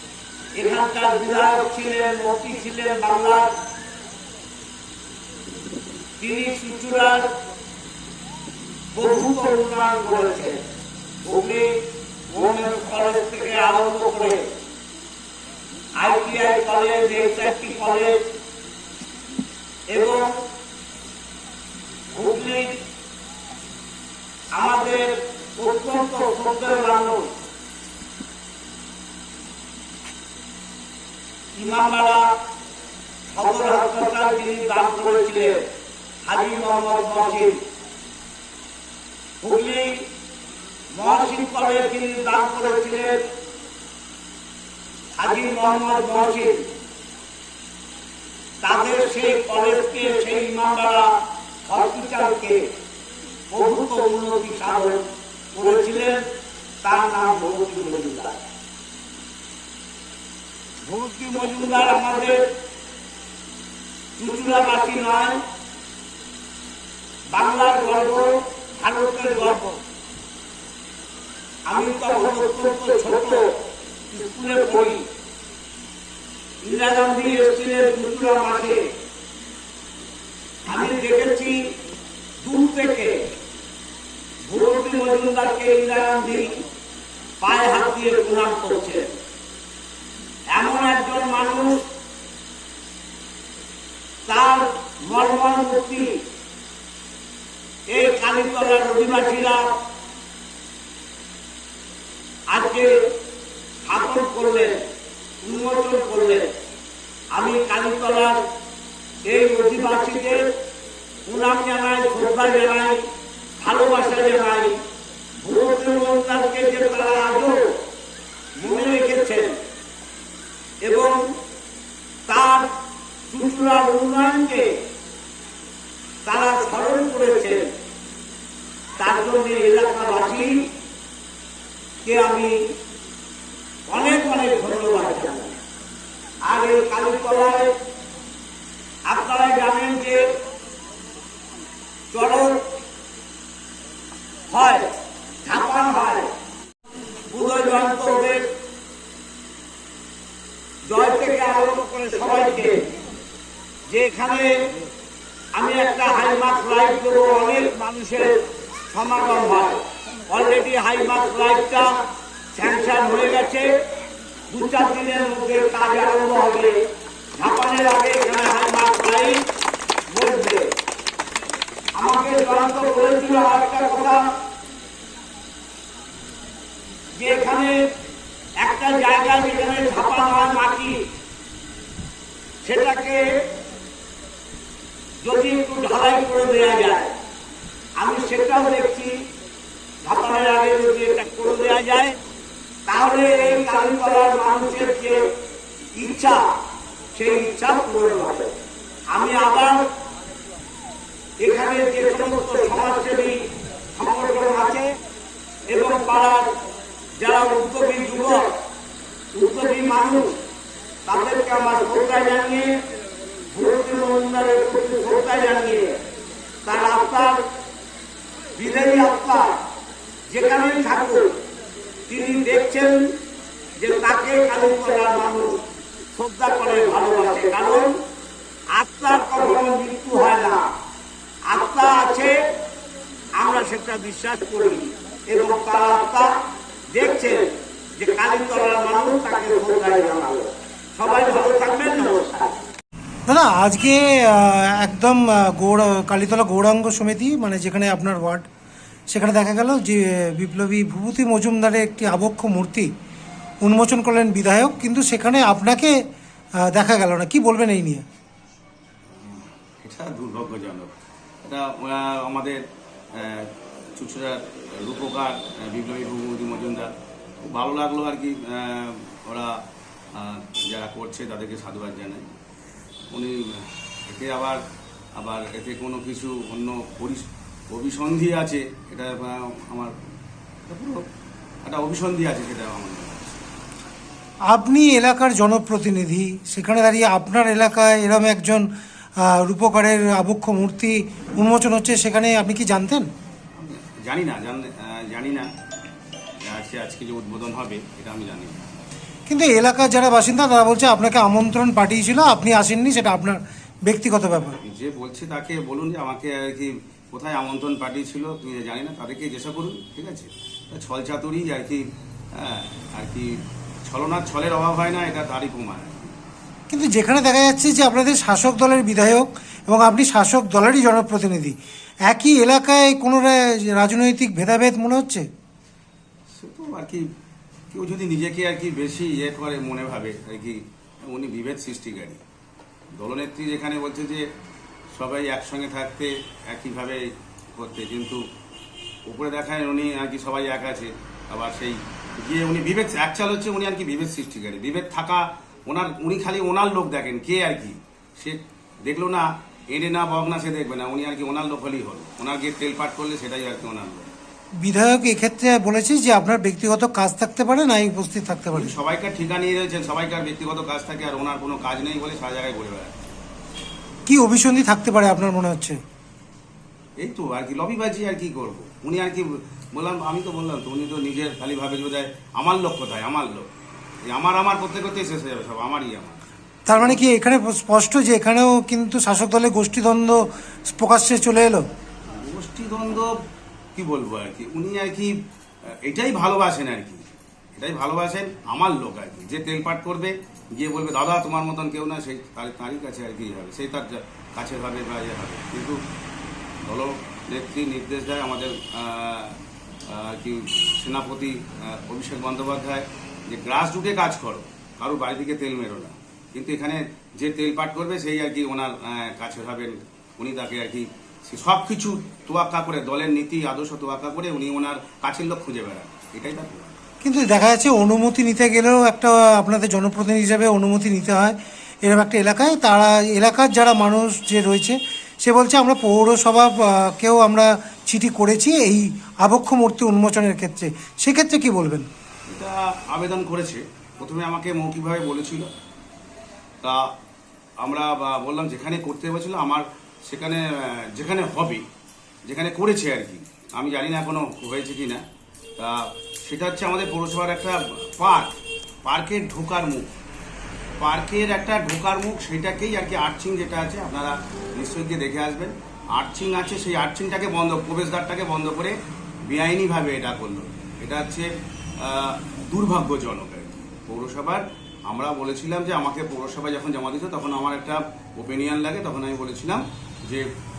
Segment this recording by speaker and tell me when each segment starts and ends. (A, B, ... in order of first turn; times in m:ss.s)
0:00.6-0:03.5 A
0:06.2-0:07.3 A
0:08.9-0:10.6 A
0:11.2-0:14.4 A
0:16.0-0:18.2 A
0:19.9-0:20.4 A
0:22.1-0:22.7 A
0:24.5-0:27.3 A
0:31.6-0:32.3 A
0:33.3-0:35.6 A
0:36.2-0:37.6 A
0:39.4-0:40.0 A
0:40.9-0:43.2 A
0:45.2-0:46.7 A
0:48.6-0:51.2 A
0:51.7-0:52.7 A
0:53.5-0:56.2 A
0:56.8-0:58.4 A
1:00.8-1:02.5 A
1:04.2-1:05.4 A
1:07.3-1:09.8 A
1:11.7-1:13.6 A
1:14.1-1:15.0 A
1:16.6-1:18.8 A
1:20.7-1:21.6 A
1:22.4-1:23.2 A
1:24.4-1:26.6 A
1:27.4-1:29.1 A
1:30.5-1:31.8 A
1:34.3-1:36.2 A
1:37.9-1:39.7 A
1:42.5-1:43.1 A
1:43.8-1:44.8 A
1:45.4-1:46.5 A
1:47.3-1:48.4 A
1:49.2-1:50.5 A
1:51.3-1:53.0 A
1:53.6-1:54.8 A
1:55.4-1:57.8 A
1:58.6-1:59.6 A
2:00.8-2:01.2 A
2:02.3-2:02.7 A
2:03.3-2:04.8 A
2:06.2-2:07.7 A
2:09.0-2:10.6 A
2:12.0-2:12.5 A
2:13.9-2:15.6 A
2:16.4-2:17.7 A
2:19.1-2:20.2 A
2:22.1-2:22.6 A
2:24.5-2:24.9 A
2:25.4-2:26.3 A
2:27.3-2:28.5 A
2:30.9-2:32.8 A
2:33.9-2:34.5 A
2:35.5-2:42.0 A
2:42.5-2:43.7 A
2:44.5-2:46.8 A
2:47.4-2:49.4 A
2:50.1-2:50.7 A
2:52.0-2:54.2 A
2:57.2-2:57.8 A
2:58.6-3:00.9 A
3:02.6-3:03.4 A
3:05.2-3:07.2 A
3:08.0-3:09.1 A
3:10.0-3:12.2 A
3:12.9-3:15.3 A
3:15.9-3:16.5 A
3:17.1-3:18.5 A
3:19.1-3:19.8 A
3:21.4-3:23.4 A
3:24.0-3:24.9 A
3:25.7-3:26.5 A
3:27.2-3:28.5 A
3:29.3-3:30.4 A
3:31.1-3:32.7 A
3:33.5-3:36.0 A
3:36.6-3:37.4 A
3:38.6-3:39.6 A
3:40.3-3:41.4 A
3:42.1-3:43.1 A
3:43.8-3:45.6 A
3:46.2-3:48.0 A
3:48.7-3:50.7 A
3:51.5-3:52.4 A
3:53.3-3:56.3 A
3:56.9-4:02.6 A
4:03.3-4:08.5 B
4:09.1-4:12.9 B
4:13.6-4:15.9 B
4:16.7-4:18.0 B
4:19.2-4:20.9 C
4:21.4-4:22.6 C
4:23.1-4:26.9 C
4:27.4-4:29.6 C
4:30.2-4:32.3 C
4:33.1-4:34.6 C
4:35.2-4:39.9 C
4:40.7-4:41.0 C
4:41.6-4:43.5 C
4:44.5-4:48.6 B
4:49.2-4:53.1 B
4:53.6-4:55.5 C
4:56.4-4:58.7 C
4:59.3-5:04.6 B
5:04.6-5:16.1 C
5:16.7-5:21.6 B
5:22.1-5:25.2 B
5:26.3-5:27.0 C
5:27.7-5:32.2 C
5:32.9-5:34.2 C
5:34.9-5:38.2 C
5:39.1-5:54.1 C
5:54.6-5:58.7 B
5:58.5-6:03.0 C
6:04.1-6:05.8 B
6:07.0-6:13.5 C
6:14.1-6:17.0 C
6:16.7-6:21.6 B
6:22.1-6:23.1 C
6:23.8-6:25.1 C
6:25.8-6:27.0 C
6:27.6-6:35.8 C
6:36.6-6:39.4 C
6:39.9-6:56.8 C
6:57.0-7:11.9 B
7:12.3-7:15.5 C
7:17.6-7:21.6 C
7:22.3-7:25.0 C
7:25.6-7:28.3 C
7:28.8-7:29.9 C
7:30.8-7:38.8 C
7:39.3-7:41.3 C
7:41.8-7:50.3 C